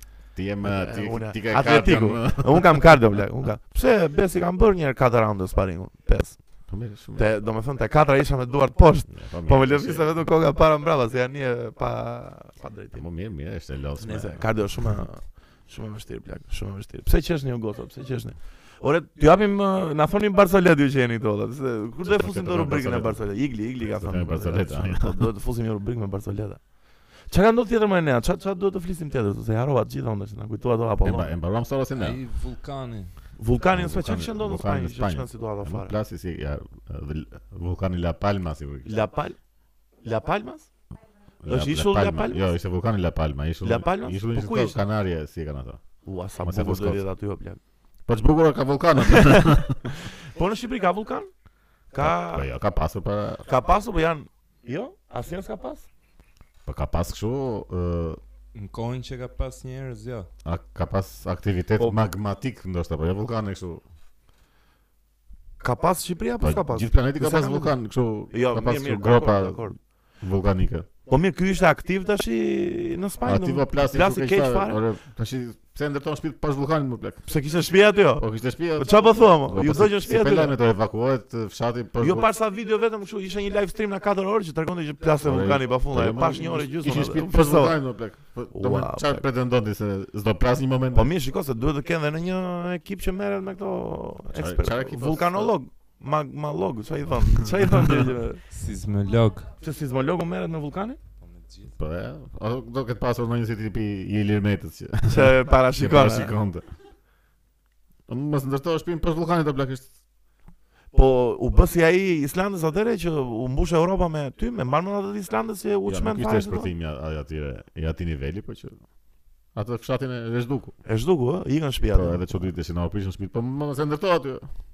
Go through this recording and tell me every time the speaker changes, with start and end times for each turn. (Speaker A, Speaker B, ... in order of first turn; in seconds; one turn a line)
Speaker A: 0.3-3.0
Speaker B: 0.6-13.1
Speaker A: 6.7-7.3
Speaker A: 9.1-10.2
Speaker A: 12.9-14.9
Speaker B: 14.0-31.3
Speaker A: 22.1-25.3
Speaker A: 31.0-32.2
Speaker C: 31.9-33.1
Speaker B: 33.4-36.0
Speaker A: 33.7-39.0
Speaker B: 38.9-39.4
Speaker B: 40.0-40.7
Speaker A: 41.4-45.8
Speaker B: 41.5-42.5
Speaker B: 43.6-44.8
Speaker B: 46.0-47.6
Speaker A: 46.4-47.0
Speaker A: 48.1-49.9
Speaker B: 49.0-51.3
Speaker B: 51.9-52.5
Speaker A: 52.0-53.5
Speaker B: 53.5-55.9
Speaker A: 56.7-58.2
Speaker C: 58.5-60.3
Speaker A: 60.5-63.8
Speaker B: 65.6-67.8
Speaker A: 66.4-70.9
Speaker B: 68.3-69.8
Speaker B: 71.1-74.8
Speaker A: 73.2-77.3
Speaker B: 77.3-80.5
Speaker A: 78.2-82.3
Speaker B: 82.0-87.8
Speaker A: 85.2-91.1
Speaker B: 88.5-89.3
Speaker B: 90.9-98.4
Speaker A: 94.3-95.5
Speaker C: 98.5-99.5
Speaker B: 99.6-101.0
Speaker C: 101.2-101.7
Speaker A: 101.8-106.7
Speaker B: 105.1-106.3
Speaker A: 108.1-109.9
Speaker B: 110.9-116.7
Speaker A: 115.9-118.8
Speaker A: 119.5-120.8
Speaker B: 120.8-122.5
Speaker A: 121.9-124.5